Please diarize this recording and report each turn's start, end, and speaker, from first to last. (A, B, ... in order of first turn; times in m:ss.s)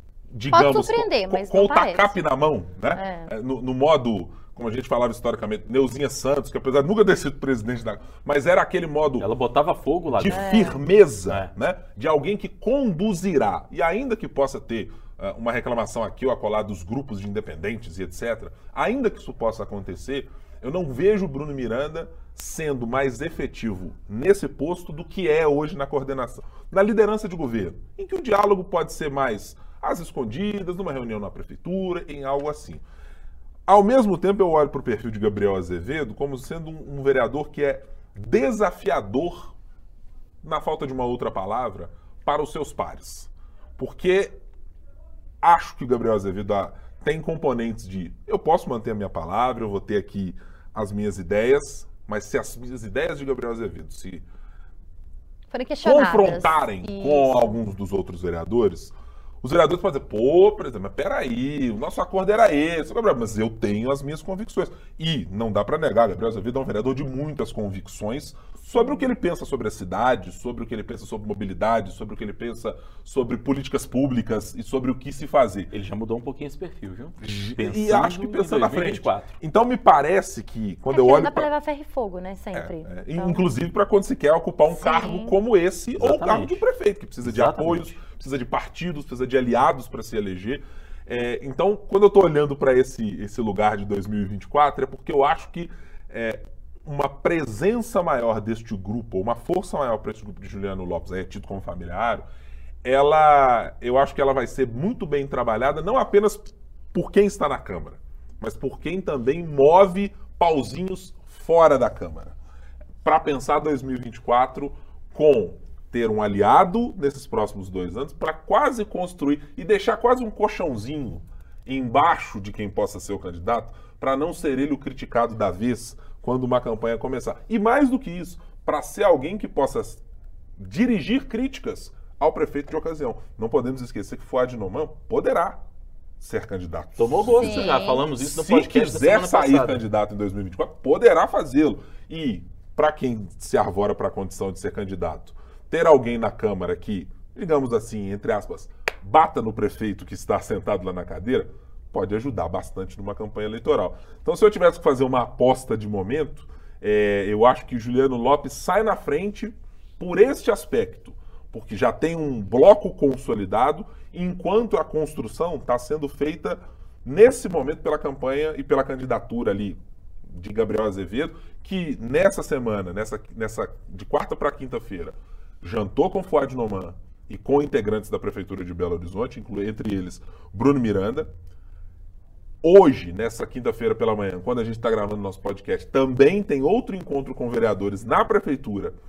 0:00.3-0:09.3 A
0:00.5-0:02.2 B
0:02.9-0:03.3 B
0:09.2-0:11.5 C
0:10.1-0:32.8 A
0:10.3-0:10.8 B
0:33.7-0:39.5 A
0:40.4-0:44.4 A
0:45.4-0:54.2 A
0:55.5-0:57.6 B
0:55.8-1:15.7 A
1:15.7-1:19.3 C
1:17.2-1:21.5 A
1:20.9-1:23.4 B
1:22.5-1:42.2 A
1:24.7-1:25.4 B
1:26.0-1:26.6 C
1:27.2-1:27.9 C
1:42.8-1:52.3 A
1:53.0-2:10.0 A
2:10.6-2:15.6 A
2:16.2-3:01.3 A
2:17.0-2:19.8 C
2:17.3-2:18.1 B
3:02.6-3:08.9 A